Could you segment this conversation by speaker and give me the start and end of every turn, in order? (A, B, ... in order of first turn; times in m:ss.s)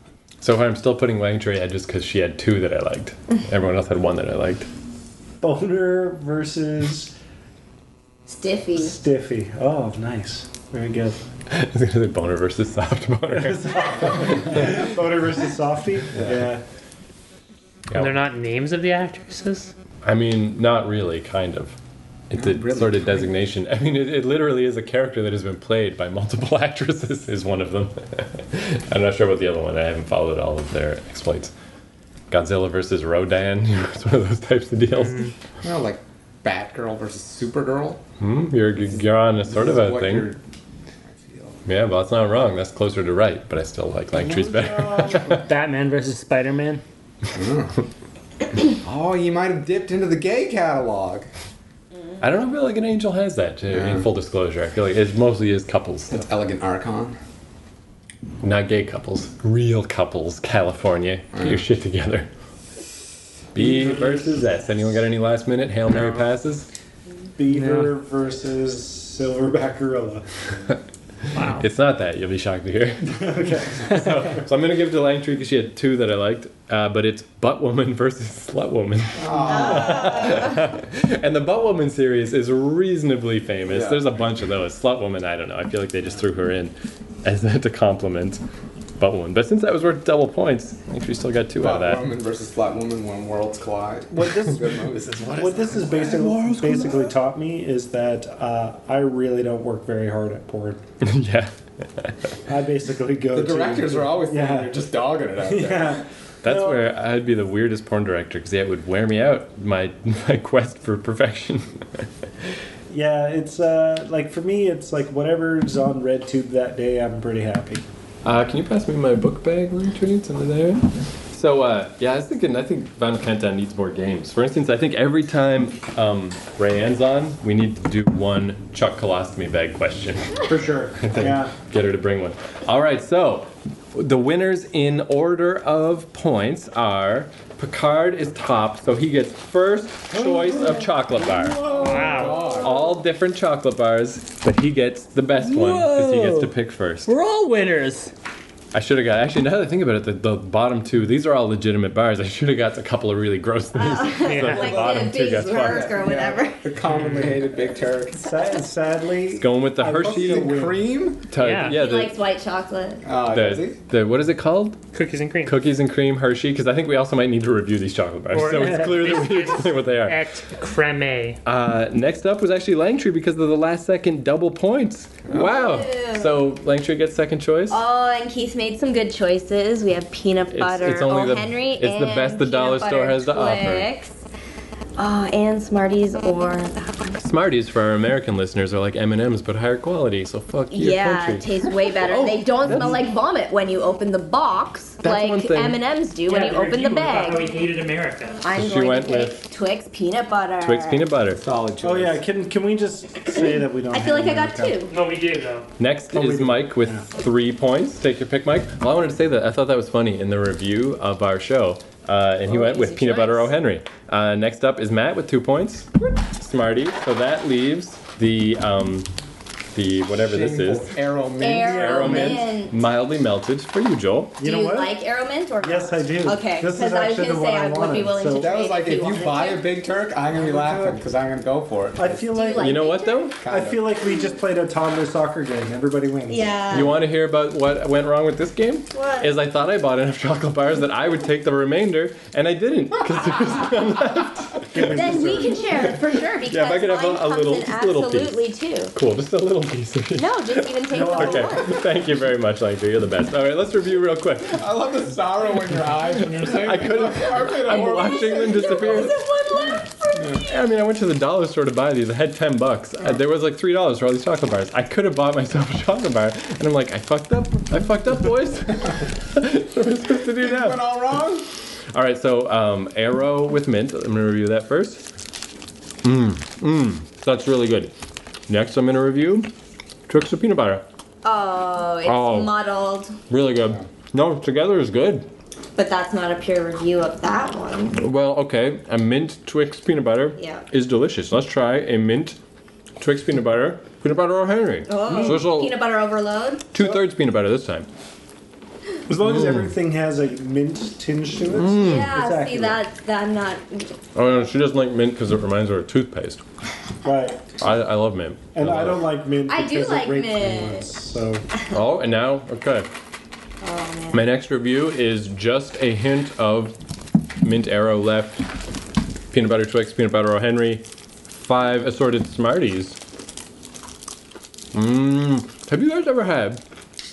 0:00.4-0:04.7 A
0:05.4-0:07.1 B
0:08.3-0:08.9 C
0:08.7-0:11.2 B
0:11.5-0:14.8 A
0:13.3-0:16.6 B
0:17.9-0:18.2 A
0:17.9-0:19.7 D
0:20.0-0:21.8 A
0:22.3-0:31.5 A
0:22.3-0:23.3 E
0:32.3-0:35.3 A
0:35.0-0:35.3 D
0:35.6-0:38.0 E
0:38.2-0:40.3 A
0:38.9-0:40.4 E
0:41.1-0:41.6 E
0:41.6-0:45.4 A
0:44.1-0:45.4 B
0:45.3-0:46.8 F
0:47.3-0:47.8 E
0:48.8-0:51.3 E
0:52.2-0:56.3 A
0:53.7-0:54.1 E
0:56.1-0:57.2 E
0:58.4-1:02.3 A
1:01.3-1:01.6 E
1:03.5-1:06.7 A
1:03.6-1:03.8 B
1:07.4-1:10.2 B
1:07.5-1:07.9 F
1:11.3-1:11.6 D
1:11.4-1:28.4 A
1:13.2-1:14.2 B
1:19.2-1:20.1 E
1:19.5-1:20.5 C
1:23.7-1:24.1 E
1:29.0-1:32.1 A
1:31.6-1:36.0 E
1:34.1-1:34.7 B
1:35.2-1:37.1 A
1:35.3-1:40.8 B
1:41.0-1:42.1 A
1:42.5-1:44.8 B
1:43.3-1:46.0 E
1:45.4-1:46.8 B
1:46.4-1:52.0 A
1:52.9-1:57.8 B
1:58.2-2:21.7 A
2:10.5-2:11.5 B
2:21.6-2:23.0 E
2:21.8-2:22.5 D
2:22.5-2:27.1 A
2:25.4-2:26.5 F
2:27.0-2:28.1 F
2:28.7-2:36.0 A
2:33.7-2:36.7 C
2:34.2-2:34.8 D
2:34.8-2:38.2 E
2:36.9-2:37.3 D
2:38.2-2:40.9 B
2:39.3-2:40.5 A
2:39.8-2:41.3 E
2:41.3-2:42.2 A
2:41.4-2:41.7 D
2:41.6-2:43.0 C
2:43.0-2:43.8 E
2:43.3-2:44.8 A
2:44.9-2:45.6 D
2:45.4-2:50.2 A
2:48.3-2:51.4 D
2:51.4-2:57.8 A
2:55.3-2:56.4 C
2:57.7-3:04.2 C
3:00.5-3:03.9 A
3:05.0-3:07.2 C
3:07.2-3:13.0 A
3:10.7-3:17.5 C
3:15.0-3:15.8 A
3:16.2-3:18.4 D
3:18.4-3:21.1 C
3:18.5-3:19.4 A
3:20.6-3:21.4 A
3:21.3-3:22.2 E
3:21.8-3:24.8 B
3:23.9-3:24.9 C
3:24.9-3:25.7 D
3:25.8-3:39.1 A
3:26.1-3:27.0 B
3:32.5-3:33.5 C
3:39.7-3:40.9 A
3:40.1-3:42.3 E
3:41.4-3:42.8 C
3:41.6-3:42.4 B
3:41.8-3:44.4 A
3:44.4-3:45.0 B
3:44.4-3:49.7 C
3:45.6-3:48.5 B
3:48.3-3:52.2 E
3:50.3-3:51.0 B
3:51.9-3:52.8 B
3:52.3-3:53.4 C
3:52.6-3:53.4 A
3:53.4-3:53.8 E
3:53.4-3:56.7 B
3:56.3-3:57.0 C
3:56.7-4:08.4 A
3:58.9-3:59.3 C
4:04.7-4:05.9 B
4:04.9-4:08.9 C
4:08.9-4:14.6 A
4:10.1-4:11.9 C
4:10.9-4:11.7 B
4:14.5-4:19.1 E
4:16.2-4:19.2 A
4:17.7-4:20.4 C
4:20.4-4:31.3 A
4:30.4-4:31.4 E
4:31.9-4:35.0 A
4:36.0-4:37.9 A
4:38.5-4:39.5 A
4:40.1-4:40.8 A
4:41.2-4:43.1 C
4:42.0-4:42.5 A
4:43.3-4:45.3 A
4:45.8-4:48.0 C
4:48.0-4:52.4 A
4:50.4-4:50.6 C
4:53.0-4:55.7 A
4:54.9-4:56.6 C
4:55.1-4:55.4 B
4:56.7-4:57.9 A
4:56.8-4:57.0 B
4:59.1-5:02.8 B
4:59.2-4:59.6 A
5:01.5-5:02.1 A
5:01.8-5:03.9 C
5:04.1-5:06.4 A
5:07.0-5:07.4 B
5:07.6-5:09.1 A
5:08.5-5:11.4 B
5:09.5-5:10.9 C
5:11.7-5:12.9 A
5:13.6-5:14.2 C
5:14.1-5:16.8 A
5:17.4-5:18.5 A
5:19.3-5:23.0 A
5:24.7-5:26.6 A